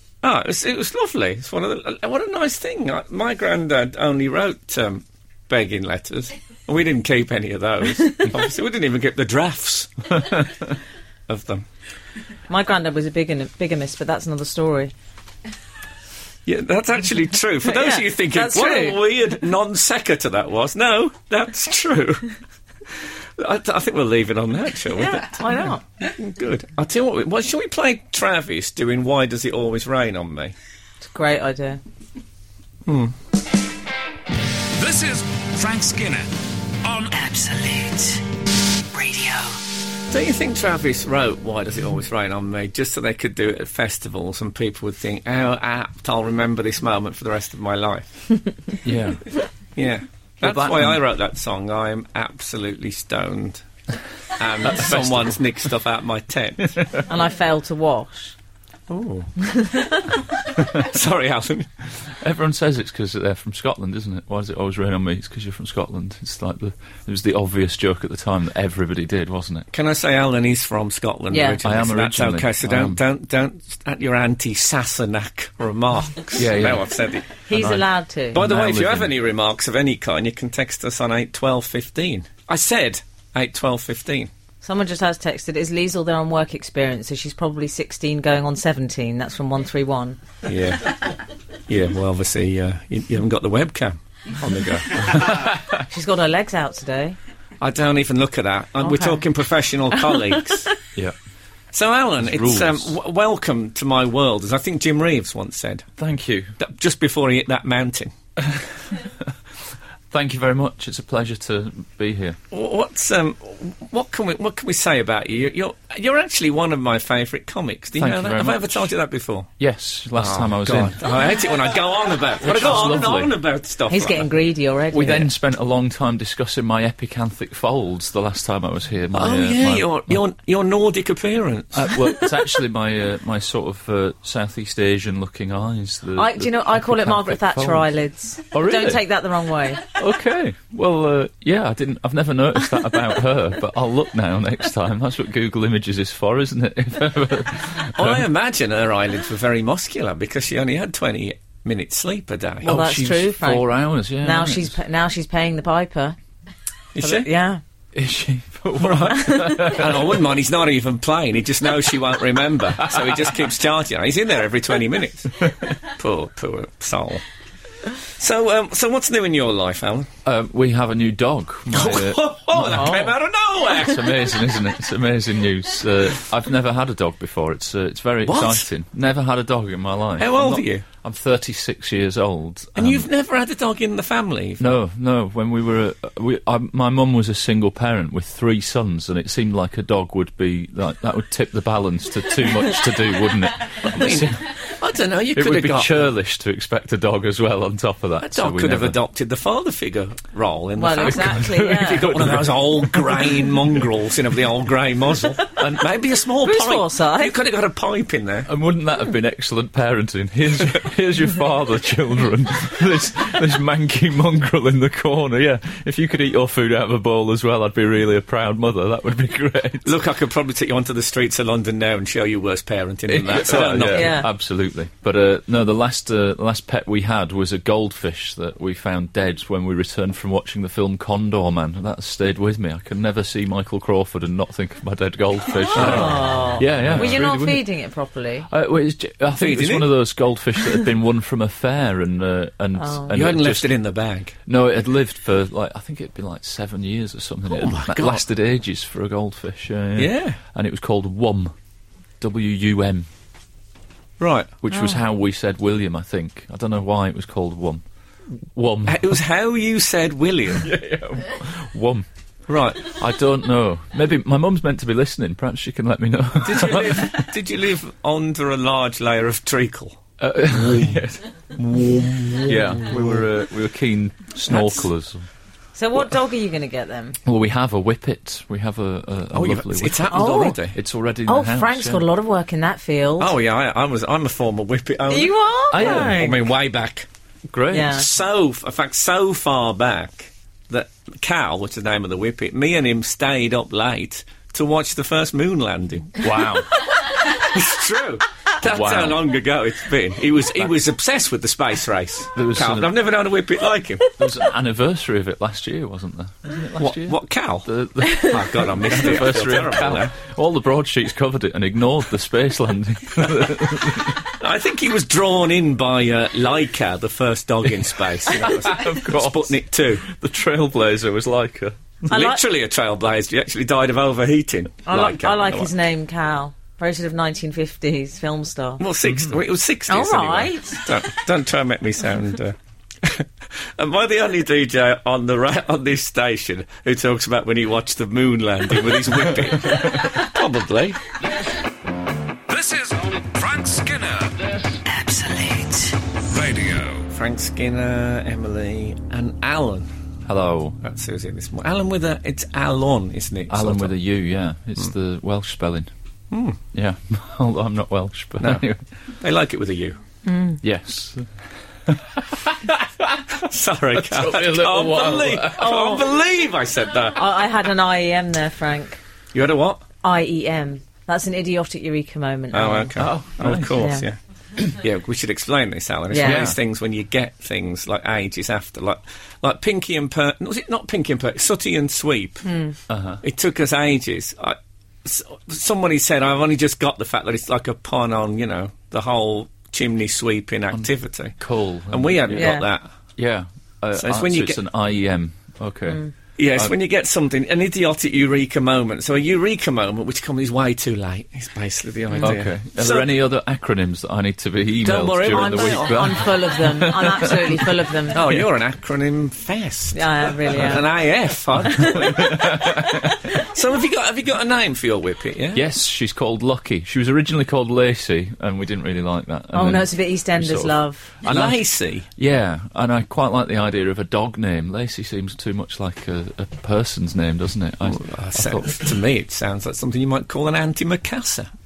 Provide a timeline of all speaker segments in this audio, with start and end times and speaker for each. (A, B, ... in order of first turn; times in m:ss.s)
0:00.2-0:10.2 A
0:11.3-0:11.7 A
0:12.5-0:14.9 B
0:16.5-0:22.3 A
0:17.6-0:19.0 B
0:23.0-0:25.4 A
0:24.9-0:25.8 B
0:26.0-0:30.5 A
0:31.0-0:31.8 B
0:32.9-0:33.1 A
0:34.6-0:36.3 C
0:36.8-0:37.1 C
0:37.1-0:38.3 D
0:38.9-0:39.6 D
0:40.1-0:48.2 A
0:48.8-0:49.2 E
0:49.8-0:53.6 A
0:50.4-0:51.0 E
0:54.4-0:56.8 A
0:54.7-0:55.4 E
0:57.1-0:58.4 B
0:58.9-0:59.3 A
0:59.4-1:00.1 B
1:00.6-1:01.7 A
1:02.1-1:09.7 E
1:09.7-1:17.3 A
1:11.3-1:11.6 B
1:11.6-1:13.0 E
1:16.4-1:17.0 E
1:17.5-1:18.4 B
1:17.5-1:19.1 E
1:18.3-1:24.3 A
1:24.6-1:30.2 B
1:30.4-1:31.0 A
1:31.7-1:35.3 A
1:35.0-1:35.8 E
1:35.8-1:37.2 B
1:37.6-1:40.7 A
1:38.8-1:39.2 B
1:41.7-1:45.9 A
1:42.2-1:42.9 E
1:46.0-1:46.5 E
1:46.6-1:48.1 A
1:48.4-1:49.3 E
1:50.1-1:52.4 E
1:52.5-1:59.5 A
1:58.0-1:58.9 E
1:59.6-2:01.1 E
2:00.1-2:04.3 A
2:02.4-2:03.3 E
2:03.9-2:05.3 B
2:04.9-2:10.2 E
2:09.1-2:12.0 A
2:11.7-2:17.8 E
2:16.2-2:19.9 B
2:18.5-2:19.0 E
2:19.9-2:28.3 E
2:28.0-2:32.7 A
2:32.6-2:34.8 E
2:32.6-2:33.7 B
2:34.2-2:36.2 B
2:37.0-2:37.3 A
2:37.0-2:37.6 B
2:37.9-2:40.2 E
2:38.8-2:45.4 A
2:39.2-2:39.8 B
2:42.8-2:43.5 E
2:46.0-2:47.2 A
2:48.0-2:50.1 A
2:50.2-2:53.2 E
2:51.7-2:54.3 A
2:52.7-2:53.1 B
2:53.8-3:03.1 E
2:58.3-2:58.7 A
3:00.2-3:00.9 A
3:02.8-3:04.8 A
3:04.6-3:14.4 E
3:13.8-3:16.1 A
3:15.4-3:19.0 E
3:18.2-3:28.5 A
3:20.8-3:22.3 B
3:21.0-3:23.7 E
3:26.4-3:27.3 B
3:28.5-3:39.9 E
3:39.8-3:44.2 A
3:43.1-3:57.7 E
3:43.8-3:44.3 B
3:55.6-3:58.5 B
3:55.7-3:57.2 A
3:58.5-4:03.7 E
3:59.3-4:00.0 A
4:02.8-4:03.2 B
4:03.1-4:04.4 A
4:04.5-4:11.5 E
4:07.5-4:08.2 A
4:10.0-4:10.4 A
4:12.2-4:13.1 E
4:14.2-4:14.6 A
4:14.6-4:17.8 E
4:18.4-4:19.2 E
4:18.9-4:20.7 A
4:20.6-4:22.1 E
4:22.5-4:23.0 A
4:22.8-4:27.3 E
4:26.4-4:31.0 A
4:30.2-4:31.2 E
4:31.6-4:33.2 A
4:32.5-4:35.3 E
4:34.5-4:34.8 A
4:35.8-4:37.2 B
4:37.2-4:42.1 E
4:39.3-4:40.8 A
4:40.1-4:40.6 B
4:41.3-4:43.3 B
4:43.2-4:47.1 A
4:45.1-4:46.4 B
4:45.7-4:46.2 E
4:47.5-4:48.0 E
4:47.7-4:48.1 B
4:47.8-5:04.2 A
4:56.2-4:56.7 E
4:58.6-4:59.2 E
5:02.3-5:03.0 E
5:04.2-5:14.3 E
5:06.8-5:10.2 A
5:14.2-5:20.1 A
5:18.3-5:21.9 E
5:22.1-5:22.4 B
5:22.1-5:25.7 A
5:24.9-5:28.8 B
5:28.8-5:41.0 A
5:29.0-5:29.4 E
5:29.9-5:30.8 B
5:39.3-5:40.2 E
5:42.5-5:44.8 C
5:44.8-5:46.0 D
5:46.2-5:47.1 C
5:47.1-5:49.9 A
5:50.3-5:50.8 E
5:50.8-5:54.0 A
5:53.5-5:55.9 E
5:56.3-5:56.6 A
5:56.7-5:58.8 E
5:58.4-5:58.6 A
5:59.2-6:00.0 A
6:00.3-6:00.6 B
6:00.6-6:01.3 E
6:01.9-6:05.8 E
6:03.4-6:07.2 A
6:05.6-6:06.0 B
6:07.1-6:09.0 B
6:09.3-6:09.8 A
6:10.0-6:12.9 B
6:12.5-6:22.4 A
6:13.0-6:13.9 E
6:13.8-6:14.1 B
6:16.1-6:16.5 B
6:16.2-6:16.6 E
6:22.4-6:22.8 B
6:22.9-6:23.2 E
6:23.2-6:31.4 A
6:31.4-6:32.6 E
6:31.9-6:32.9 A
6:32.3-6:32.7 B
6:33.2-6:36.0 E
6:34.0-6:34.6 A
6:36.4-6:43.1 A
6:42.2-6:47.7 E
6:44.8-6:46.3 A
6:45.3-6:48.3 B
6:48.1-6:52.6 A
6:49.9-6:50.9 B
6:50.5-6:50.8 E
6:51.6-6:53.2 E
6:51.6-6:53.5 B
6:53.3-6:55.7 A
6:55.5-7:01.6 E
6:59.5-7:01.1 B
7:01.3-7:02.1 A
7:02.2-7:08.9 E
7:07.9-7:11.5 A